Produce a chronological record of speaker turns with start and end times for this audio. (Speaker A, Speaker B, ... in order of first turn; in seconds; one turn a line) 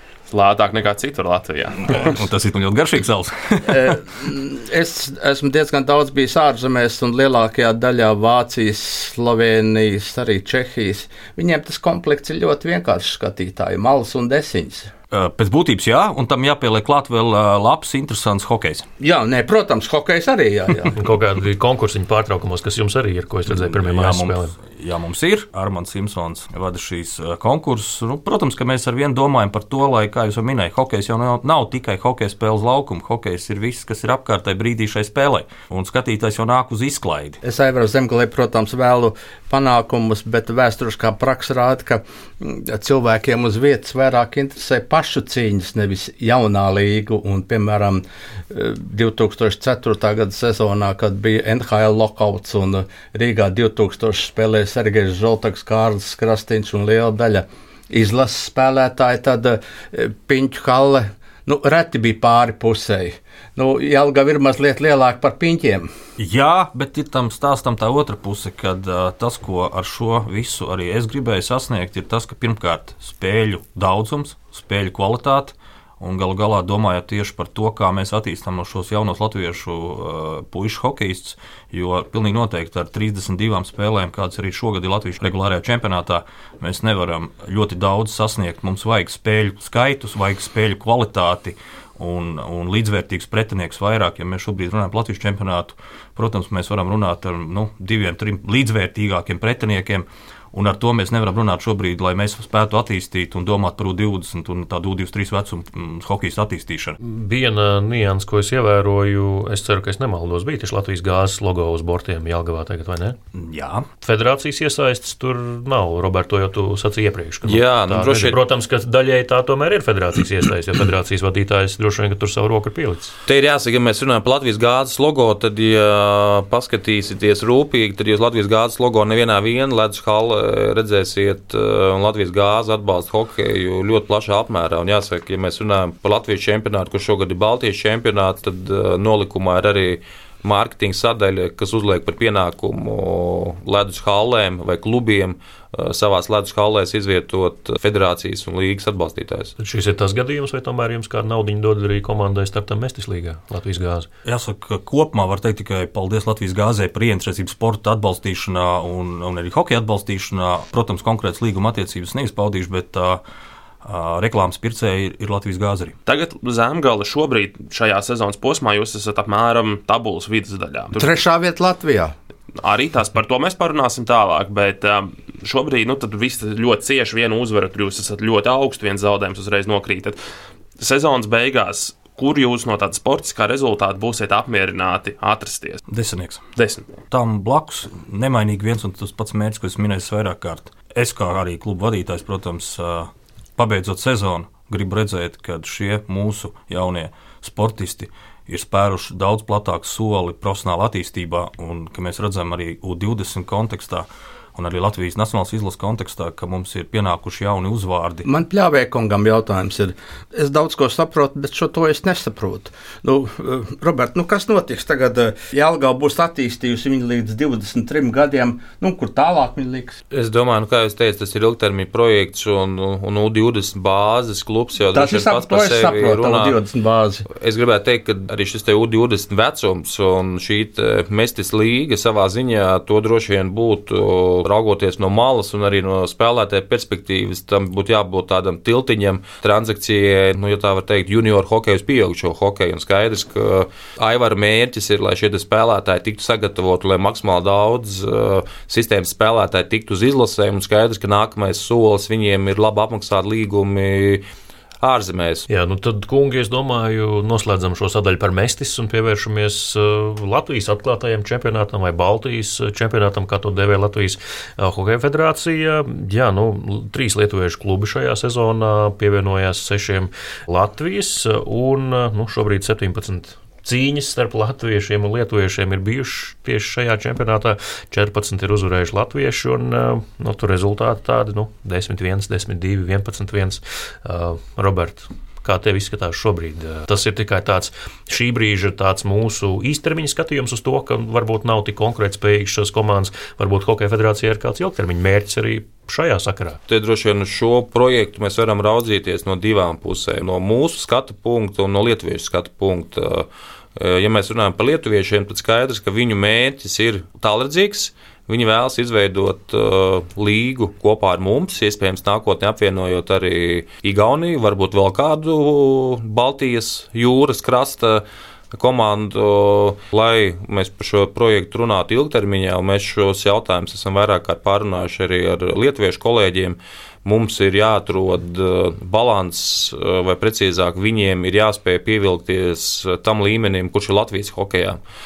Speaker A: 0.3-2.2
Speaker B: 1.8-4.0
Speaker C: 3.7-14.9
Speaker B: 15.1-18.9
Speaker C: 19.0-21.0
Speaker D: 20.9-24.6
Speaker B: 23.5-37.4
Speaker C: 37.4-65.9
Speaker B: 66.2-107.0
Speaker D: 107.0-113.2
Speaker B: 113.3-113.9
Speaker D: 114.0-123.2
Speaker E: 117.5-118.4
Speaker E: 123.3-149.5
Speaker D: 149.6-154.1
Speaker B: 154.2-163.2
Speaker B: 163.8-165.9
Speaker A: 166.1-171.1
Speaker C: 170.9-172.1
Speaker A: 172.6-180.2
Speaker A: 180.8-185.8
Speaker B: 185.9-186.4
Speaker A: 186.6-186.8
Speaker B: 187.1-208.3
Speaker C: 208.2-220.0
Speaker E: 220.1-226.6
Speaker C: 224.9-227.3
Speaker E: 227.3-254.3
Speaker E: 254.8-255.5
Speaker D: 255.5-296.6
Speaker E: 296.7-334.8